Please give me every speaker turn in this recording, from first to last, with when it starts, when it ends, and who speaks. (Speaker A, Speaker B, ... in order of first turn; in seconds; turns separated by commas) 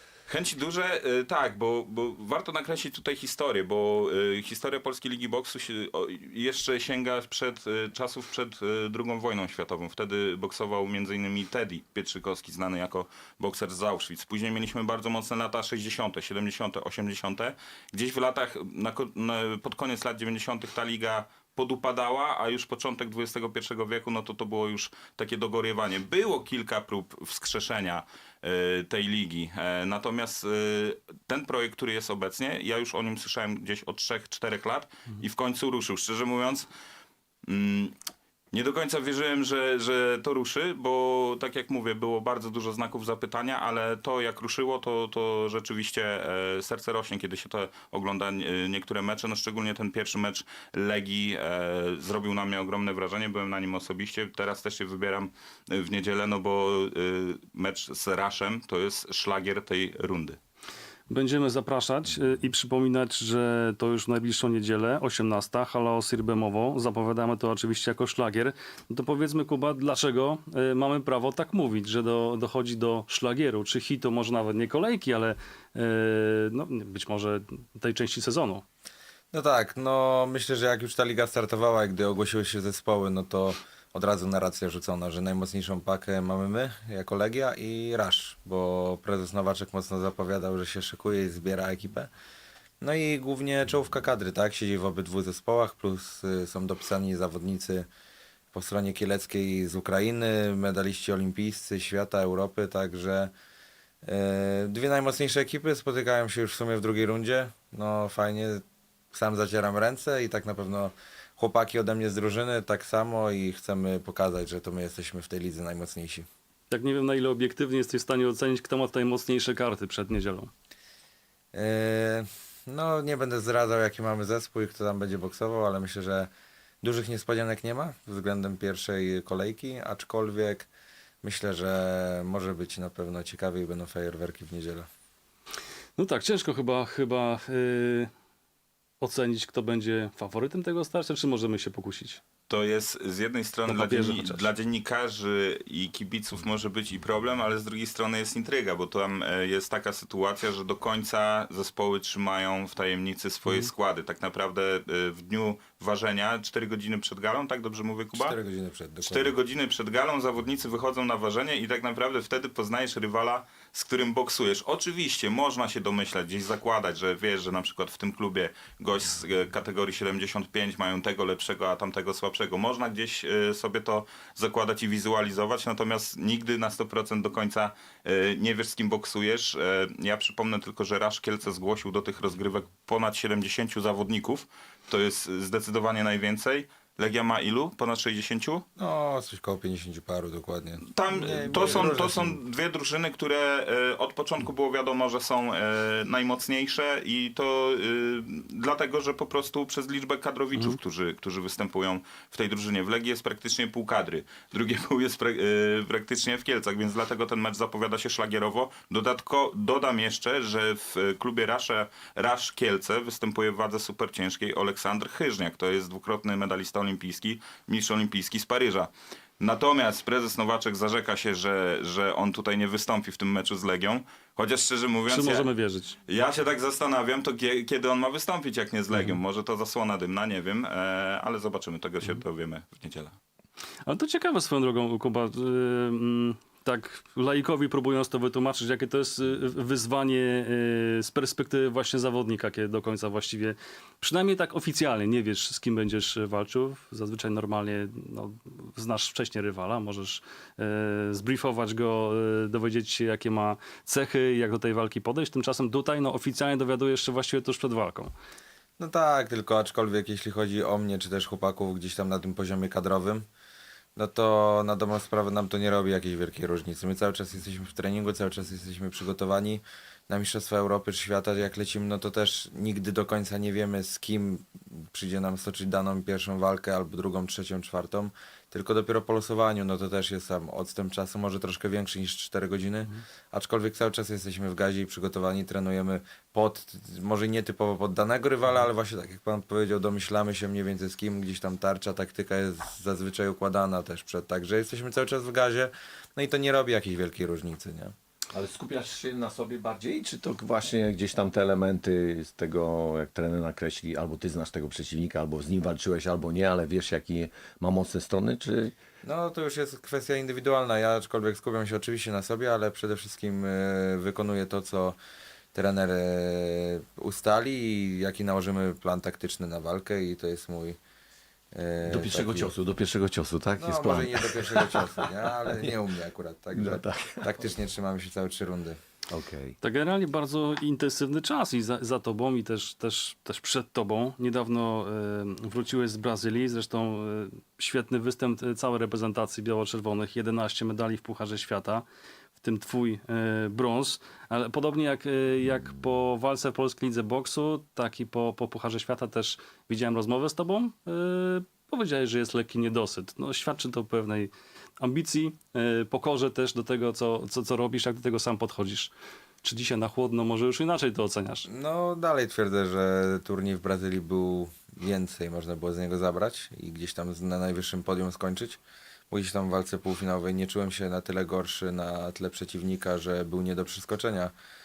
Speaker A: 0.3-36.7, Speaker A: 37.5-38.0, Speaker A: 38.5-60.4, Speaker B: 61.1-78.7, Speaker C: 79.3-92.1, Speaker C: 92.8-97.9, Speaker C: 98.5-103.3, Speaker C: 104.0-108.6, Speaker C: 109.1-116.3, Speaker B: 116.7-120.5, Speaker C: 121.5-126.3, Speaker C: 126.8-130.7, Speaker C: 131.2-134.9, Speaker B: 136.0-138.1, Speaker B: 139.0-142.2, Speaker A: 142.5-158.4, Speaker B: 143.7-144.5, Speaker C: 158.1-159.3, Speaker A: 159.0-188.7, Speaker C: 188.8-192.4, Speaker A: 190.9-225.5, Speaker B: 225.1-226.0, Speaker A: 226.1-233.2, Speaker B: 233.8-258.1, Speaker C: 258.8-263.2, Speaker C: 264.0-297.9, Speaker D: 298.3-308.8, Speaker C: 309.0-315.0, Speaker C: 315.5-320.8, Speaker C: 321.5-322.5, Speaker D: 321.8-325.8, Speaker C: 323.6-328.8, Speaker D: 326.6-327.3, Speaker D: 329.1-329.6, Speaker B: 329.6-341.9, Speaker B: 342.4-361.5, Speaker C: 361.5-368.6, Speaker C: 369.1-374.3